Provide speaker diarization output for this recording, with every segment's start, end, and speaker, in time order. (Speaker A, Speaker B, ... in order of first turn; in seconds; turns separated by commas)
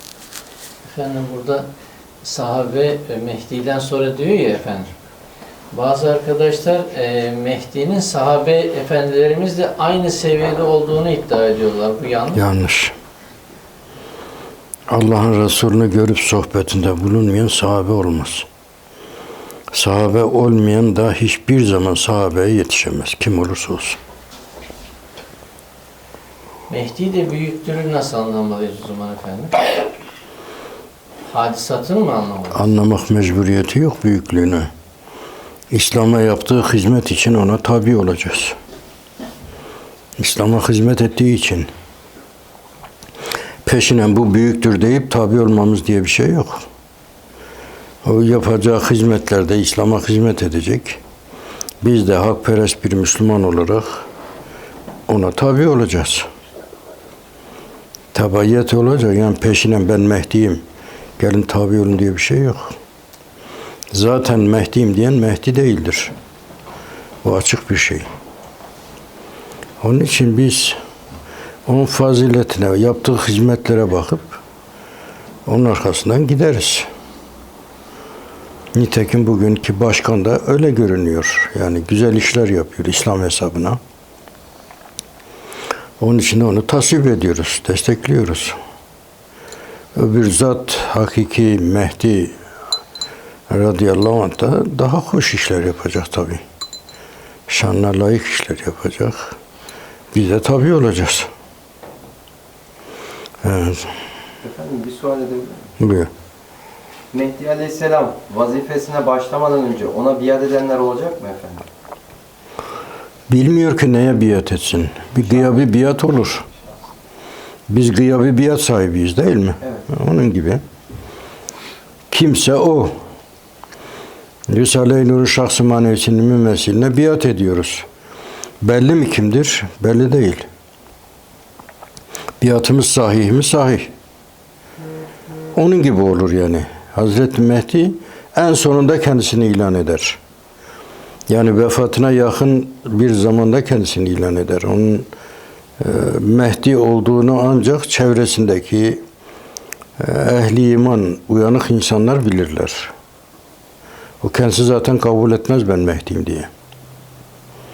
Speaker A: 0.8-1.7, Speaker A: 2.2-4.9, Speaker A: 5.7-12.4, Speaker B: 12.3-12.9, Speaker B: 14.9-18.5, Speaker B: 19.7-24.0, Speaker A: 26.7-29.8, Speaker A: 31.3-32.6, Speaker B: 32.5-34.7, Speaker B: 35.7-38.5, Speaker B: 40.2-41.7, Speaker B: 43.6-46.6, Speaker B: 48.0-51.0, Speaker B: 51.8-54.1, Speaker B: 55.1-56.3, Speaker B: 58.1-60.6, Speaker B: 61.2-62.7, Speaker B: 63.9-66.1, Speaker B: 67.2-68.1, Speaker B: 69.8-70.8, Speaker B: 71.7-74.4, Speaker B: 75.5-76.9, Speaker B: 78.7-83.8, Speaker B: 86.0-88.6, Speaker B: 90.0-92.4, Speaker B: 93.5-96.4, Speaker B: 97.5-99.4, Speaker B: 100.1-101.3, Speaker B: 103.4-103.9, Speaker C: 104.4-105.7, Speaker B: 105.8-106.1, Speaker C: 107.1-111.7, Speaker B: 113.3-116.5, Speaker B: 117.7-120.6, Speaker B: 122.1-122.9, Speaker B: 124.5-127.8, Speaker B: 128.6-130.5, Speaker B: 132.4-133.9, Speaker B: 135.5-140.2, Speaker B: 141.3-145.1, Speaker B: 145.8-149.0, Speaker B: 150.0-152.9, Speaker B: 154.2-156.5